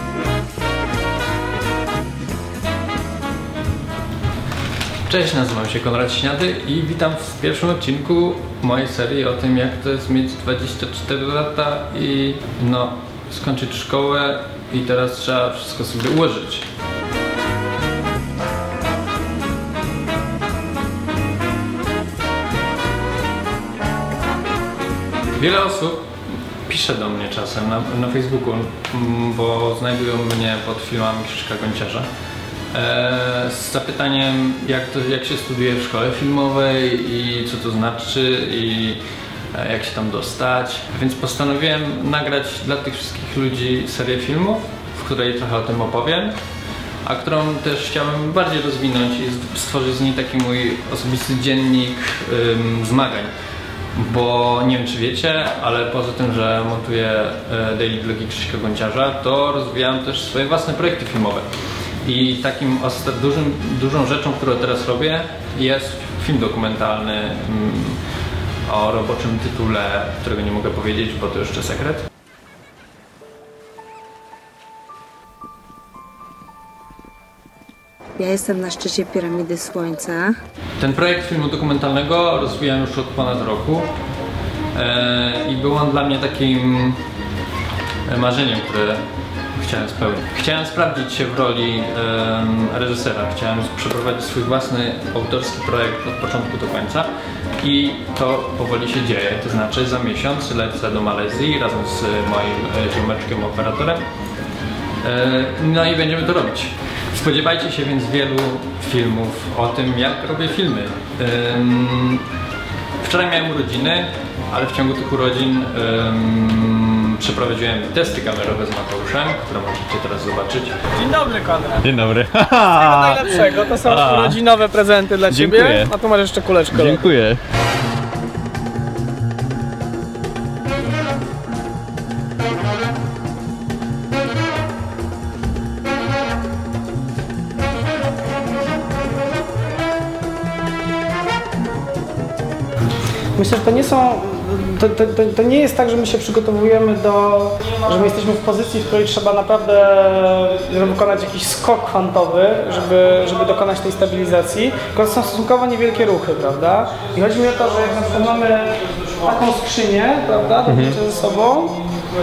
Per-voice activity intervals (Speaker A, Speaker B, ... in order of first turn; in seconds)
Speaker A: 5.1-16.6, 25.4-26.0, 26.7-32.1, 32.7-39.0, 39.5-46.3, 47.0-53.3, 54.0-61.5, 62.0-68.0, 68.7-72.0, 80.8-83.9, 84.8-87.0, 88.1-89.0, 89.6-97.1, 97.6-104.0, 105.0-112.2, 113.0-120.8
Speaker B: 78.2-80.4
Speaker C: 121.0-121.8, 122.8-127.2, 143.4-161.8
Speaker D: 121.8-124.4, 125.3-125.9, 126.8-127.4, 160.7-160.9